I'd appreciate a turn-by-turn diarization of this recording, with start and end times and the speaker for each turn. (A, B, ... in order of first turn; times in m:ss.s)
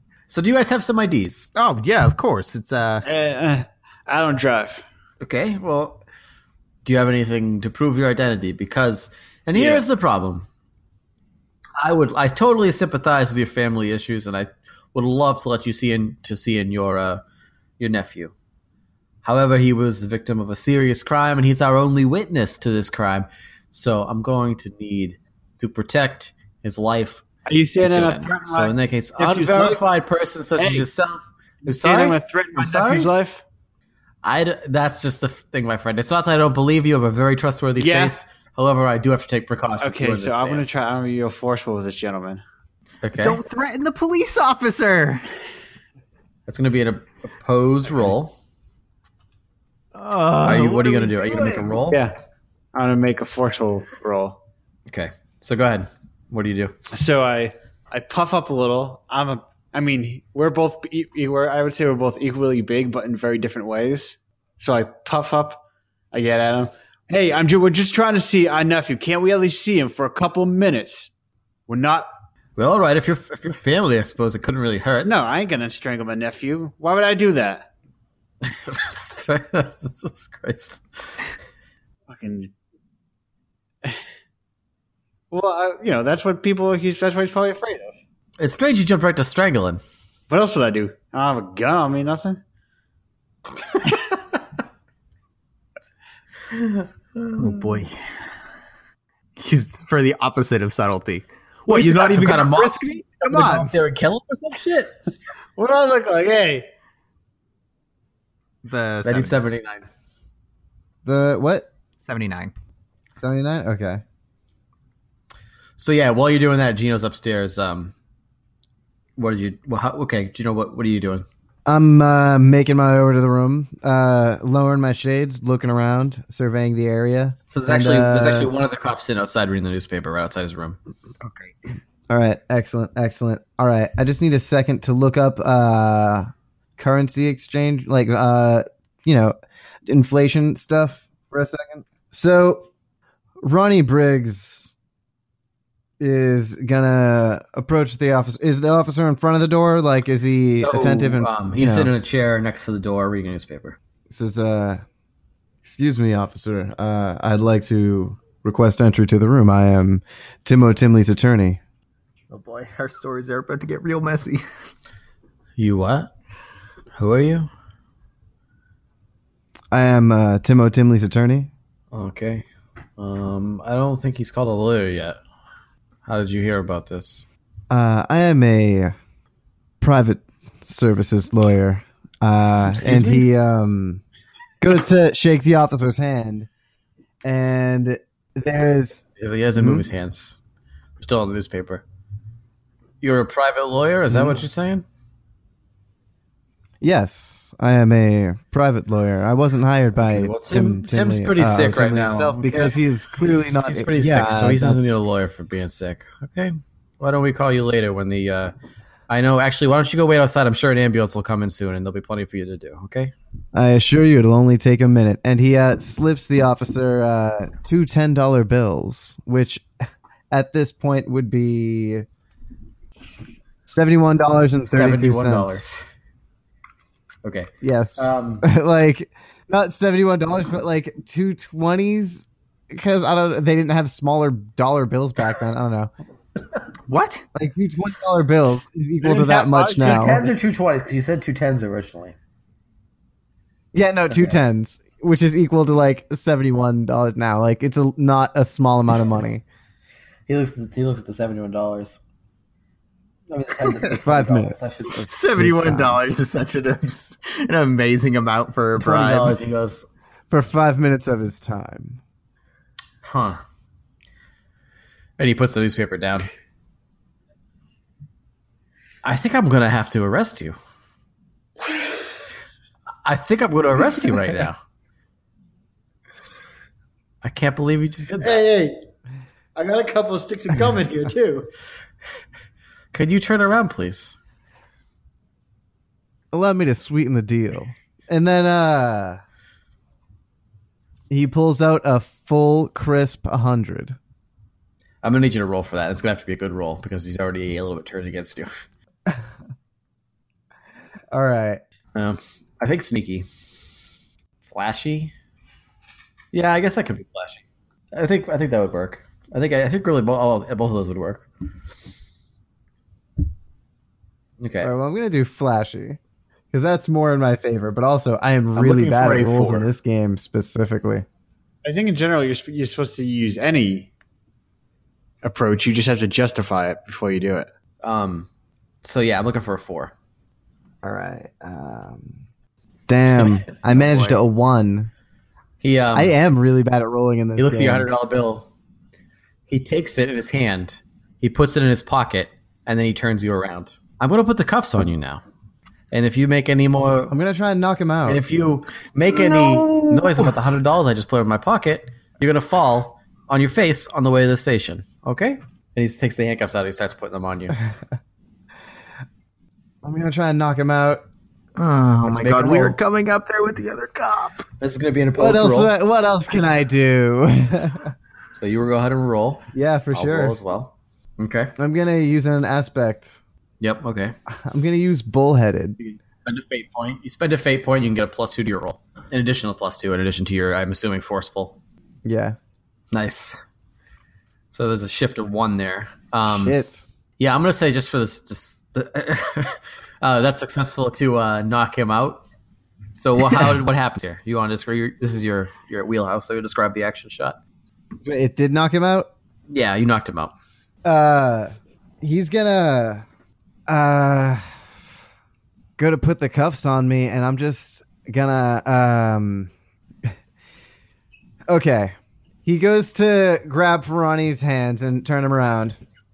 0:00.3-0:01.5 A
0:01.5-0:03.0 B
0:03.0-0:04.8 C
0:05.2-0:06.0 A
0:06.8-0:10.4 A
0:09.5-0:09.8 C
0:11.8-0:17.2 A
0:17.8-0:18.3 A
0:19.2-0:27.2 A
0:27.4-0:29.8 C
0:27.8-0:33.1 A
0:30.6-0:30.9 C
0:31.6-0:33.4 C
0:34.2-0:40.6 A
0:37.8-0:38.2 C
0:39.8-0:42.4 C
0:43.0-0:43.4 A
0:43.2-0:45.2 B
0:46.5-0:48.3 A
0:49.9-0:51.8 B
0:50.4-0:52.0 A
0:52.7-0:54.4 C
0:54.9-0:56.7 A
0:56.9-1:11.1 C
1:11.7-1:12.1 C
1:12.6-1:15.1 A
1:15.0-1:17.7 C
1:18.4-1:21.2 A
1:22.1-1:22.5 C
1:25.3-1:27.9 C
1:28.4-1:29.8 A
1:30.3-1:32.4 C
1:37.3-1:38.0 B
1:39.4-1:43.7 B
1:41.7-1:44.9 A
1:45.6-1:46.7 C
1:48.6-1:49.5 B
1:49.0-1:49.9 A
1:51.0-1:51.7 D
1:52.0-1:52.5 B
1:53.2-1:54.0 D
1:55.8-1:57.9 A
1:59.2-2:01.2 A
2:01.6-2:08.5 D
2:07.5-2:10.8 A
2:12.1-2:19.3 D
2:19.8-2:22.6 D
2:23.4-2:24.7 D
2:26.0-2:31.9 D
2:30.5-2:33.8 A
2:34.1-2:34.8 D
2:35.6-2:41.6 D
2:42.3-2:44.4 B
2:45.6-2:46.1 A
2:47.0-2:47.5 A
2:49.7-2:51.5 D
2:51.9-2:52.4 A
2:53.0-2:55.2 A
2:56.0-2:57.2 A
2:57.7-2:58.9 D
2:59.8-3:04.0 D
3:02.5-3:03.2 A
3:04.6-3:06.5 D
3:07.2-3:09.0 D
3:09.2-3:10.4 A
3:09.6-3:09.9 D
3:11.0-3:11.8 A
3:13.0-3:14.8 A
3:14.1-3:14.4 D
3:16.8-3:25.0 D
3:20.0-3:28.5 A
3:29.1-3:33.1 A
3:33.5-3:39.6 D
3:40.3-3:42.0 D
3:43.6-3:45.6 D
3:44.7-3:45.9 A
3:47.2-3:48.4 A
3:47.6-3:55.9 D
3:56.9-3:57.2 B
3:57.3-4:00.2 D
3:59.0-4:00.3 C
3:59.7-4:02.2 A
4:03.7-4:09.4 D
4:10.3-4:12.0 A
4:13.3-4:15.0 A
4:13.9-4:16.0 D
4:15.1-4:19.4 B
4:18.8-4:19.9 A
4:20.3-4:22.0 D
4:23.0-4:23.4 A
4:25.2-4:26.3 A
4:29.0-4:30.6 A
4:33.0-4:34.6 A
4:37.2-4:38.4 A
4:38.2-4:38.8 C
4:39.6-4:41.5 C
4:42.9-4:44.2 A
4:46.3-4:49.2 D
4:51.1-4:54.0 D
4:55.0-4:58.5 A
5:01.1-5:01.6 D
5:01.9-5:03.2 A
5:04.4-5:05.1 A
5:06.3-5:07.4 A
5:07.9-5:11.3 A
5:14.4-5:14.7 A
5:14.6-5:16.0 D
5:16.5-5:21.0 D
5:18.5-5:19.7 A
5:21.6-5:23.9 C
5:25.2-5:27.5 C
5:27.8-5:28.3 A
5:28.8-5:29.9 A
5:30.8-5:32.2 D
5:32.9-5:34.9 D
5:33.1-5:34.2 A
5:35.6-5:36.2 A
5:35.9-5:37.9 D
5:37.4-5:38.5 A
5:39.5-5:45.2 A
5:45.9-5:47.1 A
5:47.1-5:48.2 D
5:48.0-5:57.6 A
5:49.1-5:50.3 B
5:59.8-6:01.0 D
6:01.6-6:04.4 B
6:02.1-6:02.8 A
6:04.6-6:05.7 A
6:05.2-6:07.9 D
6:08.3-6:11.5 A
6:09.5-6:10.4 D
6:11.6-6:13.2 D
6:13.6-6:14.1 A
6:14.3-6:15.8 D
6:15.8-6:21.6 A
6:22.0-6:22.4 D
6:22.9-6:23.4 A
6:24.5-6:26.6 A
6:26.2-6:26.8 D
6:27.2-6:32.2 A
6:32.9-6:37.4 A
6:38.0-6:39.1 D
6:39.5-6:40.3 A
6:40.8-6:43.0 D
6:43.7-6:44.5 D
6:45.8-6:49.5 D
6:51.5-6:55.8 D